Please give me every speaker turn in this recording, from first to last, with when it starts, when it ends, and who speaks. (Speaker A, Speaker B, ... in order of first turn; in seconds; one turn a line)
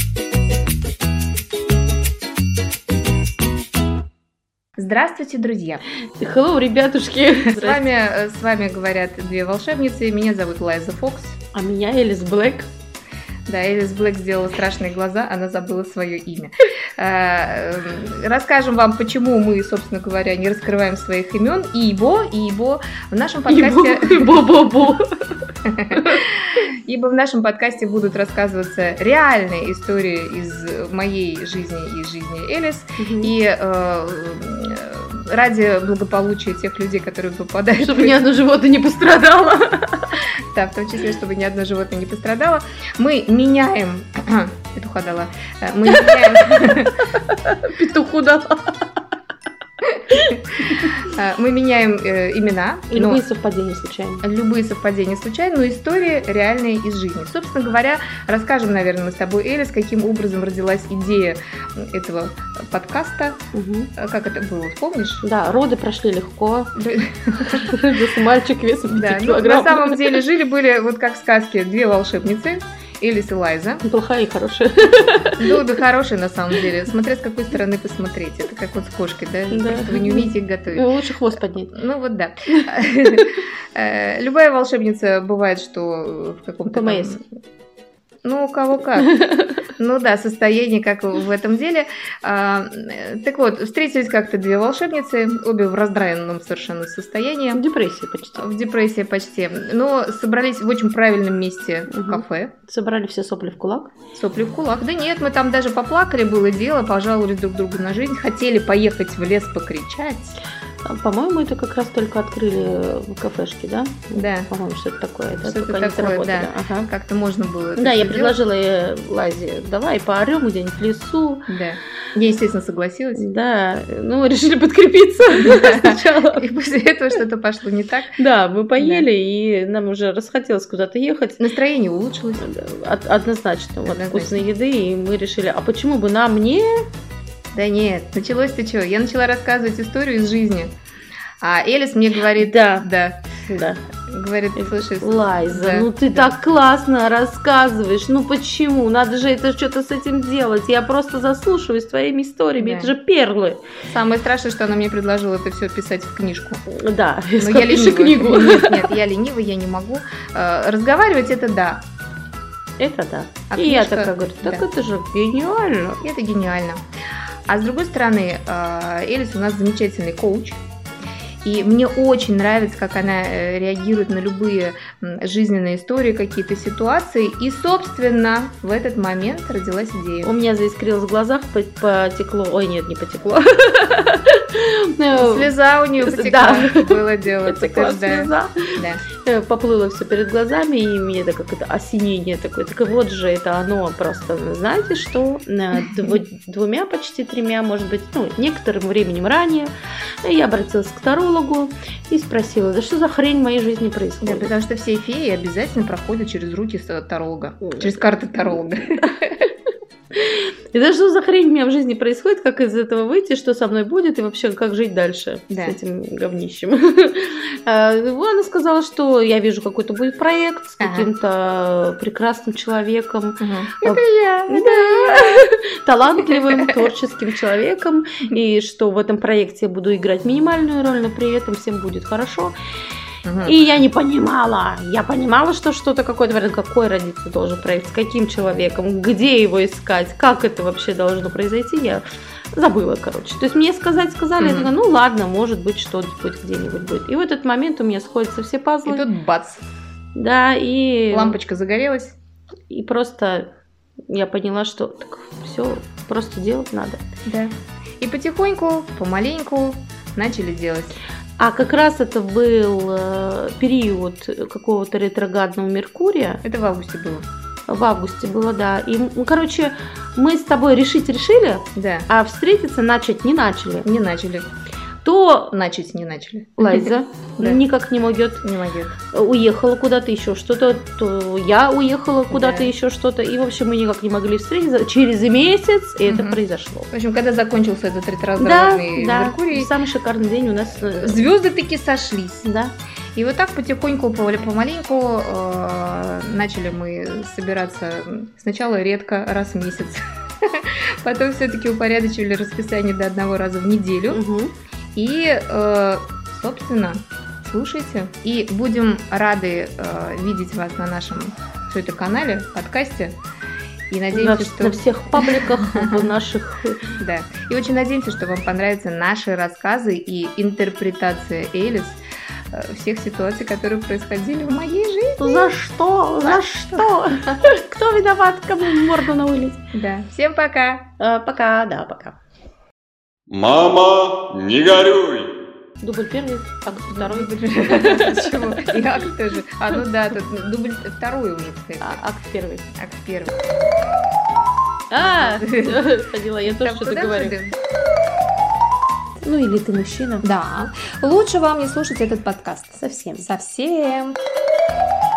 Speaker A: 4.8-5.8
Speaker B: 6.2-7.8
Speaker A: 7.4-11.4
Speaker B: 11.5-12.7
Speaker A: 13.5-24.5
Speaker B: 23.5-25.1
Speaker A: 25.6-38.2
Speaker B: 25.9-26.2
Speaker B: 33.0-33.3
Speaker B: 37.8-40.2
Speaker A: 40.5-47.1
Speaker B: 45.9-46.5
Speaker B: 47.1-48.8
Speaker A: 50.1-53.2
Speaker B: 50.1-50.9
Speaker B: 52.9-54.2
Speaker A: 54.2-63.4
Speaker B: 63.5-63.9
Speaker A: 64.0-65.2
Speaker B: 65.2-66.8
Speaker A: 66.7-67.7
Speaker B: 67.5-70.2
Speaker A: 68.8-73.8
Speaker B: 73.8-75.5
Speaker A: 75.4-80.9
Speaker B: 79.5-81.8
Speaker A: 81.7-87.2
Speaker B: 82.5-83.2
Speaker B: 86.7-87.1
Speaker A: 88.2-89.1
Speaker B: 89.0-89.6
Speaker A: 89.8-97.6
Speaker B: 97.5-98.5
Speaker A: 98.3-102.5
Speaker B: 101.9-103.9
Speaker A: 104.1-110.4
Speaker B: 110.8-116.9
Speaker A: 114.1-114.5
Speaker A: 115.4-118.4
Speaker B: 117.8-121.5
Speaker A: 121.5-123.3
Speaker B: 123.1-126.4
Speaker A: 125.3-128.2
Speaker B: 128.2-131.4
Speaker A: 128.8-129.1
Speaker A: 131.4-132.5
Speaker B: 132.4-136.8
Speaker A: 133.8-134.5
Speaker A: 137.5-140.7
Speaker A: 141.4-143.2
Speaker B: 142.4-143.8
Speaker A: 144.1-146.3
Speaker B: 144.6-153.6
Speaker A: 152.6-152.9
Speaker A: 153.9-156.6
Speaker B: 156.7-158.9
Speaker A: 157.4-161.8
Speaker B: 162.8-166.0
Speaker A: 163.5-164.6
Speaker A: 166.0-166.8
Speaker A: 167.5-170.6
Speaker A: 171.4-180.3
Speaker B: 180.2-204.5
Speaker A: 185.1-189.0
Speaker A: 204.2-209.5
Speaker B: 210.1-232.5
Speaker A: 215.5-215.8
Speaker A: 220.8-221.1
Speaker A: 223.4-225.4
Speaker A: 226.5-226.8
Speaker A: 233.2-233.6
Speaker B: 233.4-249.1
Speaker A: 244.4-244.7
Speaker A: 248.8-249.6
Speaker B: 250.1-251.4
Speaker A: 251.1-252.2
Speaker B: 252.7-253.5
Speaker B: 254.1-257.0
Speaker A: 257.2-261.0
Speaker B: 261.4-266.4
Speaker A: 266.4-267.2
Speaker B: 267.7-273.9
Speaker A: 271.7-272.1
Speaker A: 273.8-274.5
Speaker B: 275.0-275.5
Speaker A: 275.5-277.6
Speaker B: 276.6-278.4
Speaker A: 278.4-279.0
Speaker B: 279.1-286.9
Speaker A: 282.3-282.7
Speaker A: 286.0-286.4
Speaker A: 286.9-289.7
Speaker B: 288.4-291.3
Speaker A: 291.0-292.5
Speaker B: 292.4-292.7
Speaker A: 293.1-304.2
Speaker B: 304.1-304.5
Speaker A: 304.9-313.1
Speaker A: 313.9-316.1
Speaker B: 314.1-316.8
Speaker A: 317.0-322.0
Speaker A: 322.5-325.5
Speaker B: 325.2-329.6
Speaker A: 326.2-327.4
Speaker A: 329.7-330.9
Speaker B: 331.0-332.2
Speaker C: 333.3-335.3
Speaker B: 335.8-339.0
Speaker A: 336.7-342.0
Speaker B: 341.8-342.6
Speaker A: 342.7-343.3
Speaker B: 344.9-347.4
Speaker A: 345.0-347.5
Speaker B: 349.2-350.2
Speaker A: 350.2-354.2
Speaker B: 352.8-353.2